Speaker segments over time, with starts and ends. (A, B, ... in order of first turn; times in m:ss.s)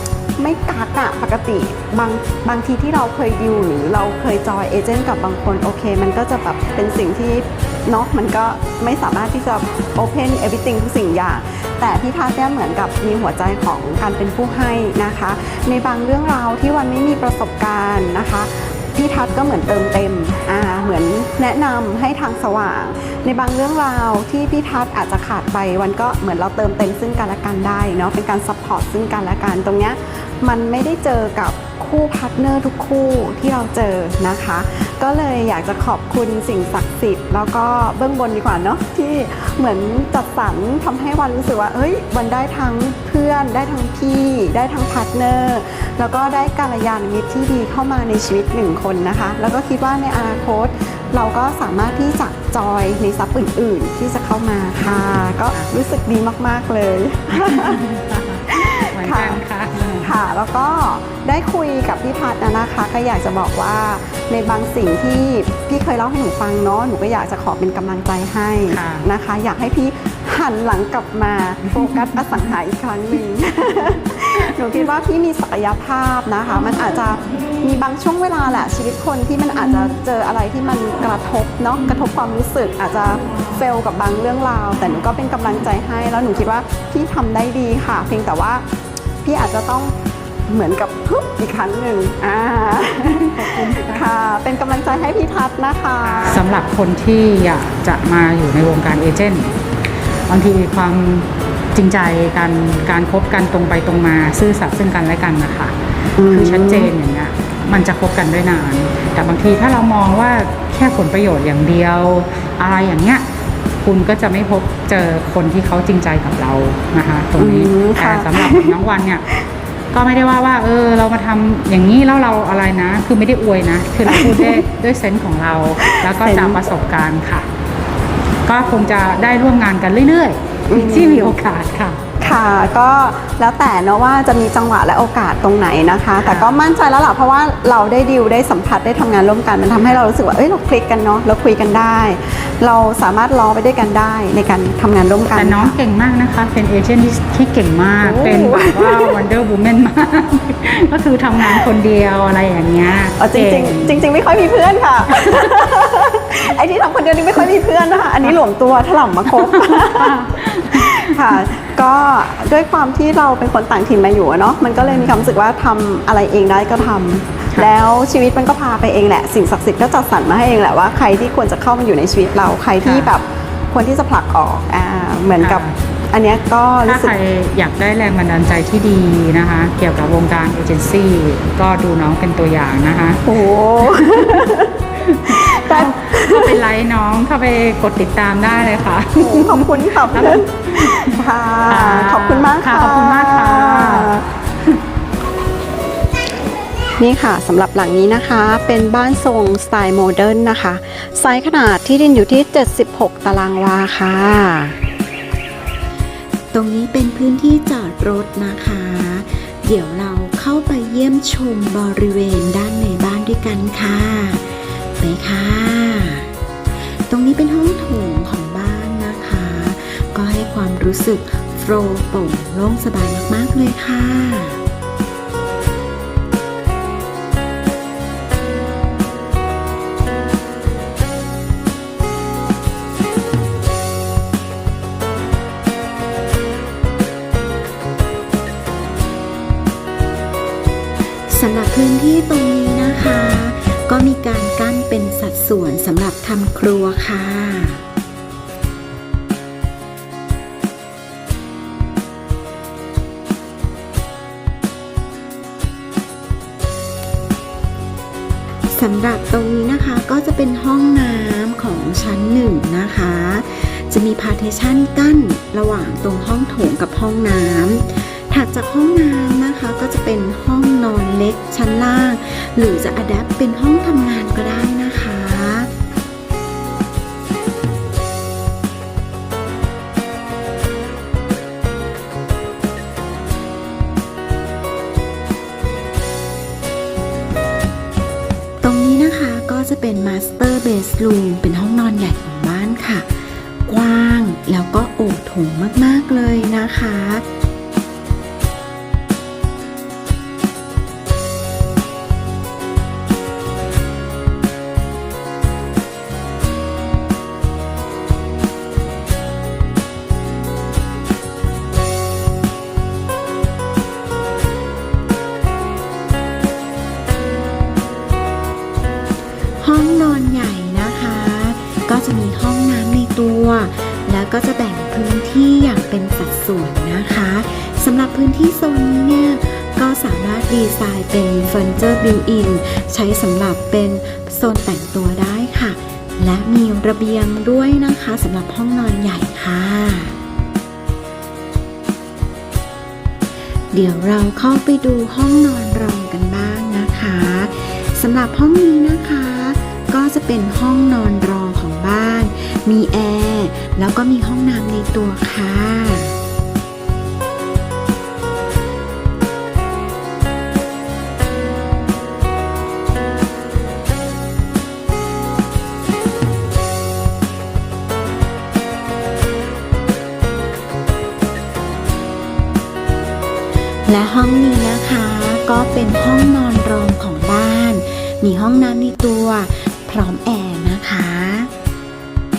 0:00.4-0:57.8 A
0:57.4-1:00.1 B
0:58.5-0:59.4 A
1:00.0-1:28.6 A
1:08.7-1:09.1 B
1:11.7-1:12.2 B
1:29.2-1:30.0 A
1:30.5-1:36.4 A
1:33.0-1:34.1 B
1:36.0-1:39.6 B
1:40.3-1:53.2 B
1:46.2-1:46.9 A
1:53.8-1:59.3 B
1:57.4-1:58.8 A
1:59.9-2:07.5 B
2:04.0-2:04.6 A
2:05.8-2:06.6 A
2:08.4-2:12.0 B
2:10.7-2:11.4 A
2:12.2-2:25.8 A
2:16.2-2:16.6 B
2:25.4-2:34.1 B
2:28.0-2:29.2 A
2:31.4-2:31.7 A
2:33.2-2:57.1 A
2:35.1-2:35.4 B
2:39.4-2:41.2 B
2:44.8-2:45.3 B
2:52.8-2:53.1 B
2:55.4-2:55.7 B
2:56.8-3:03.2 B
3:03.2-3:06.6 A
3:03.8-3:04.5 B
3:05.0-3:14.1 B
3:09.2-3:14.2 A
3:17.0-3:24.8 A
3:26.5-3:36.3 C
3:36.8-3:44.6 C
4:01.3-4:07.8 C
4:18.7-4:35.7 C
4:48.6-4:57.2 C
5:19.6-5:40.2 C
5:43.7-5:56.2 C
6:13.8-6:21.5 C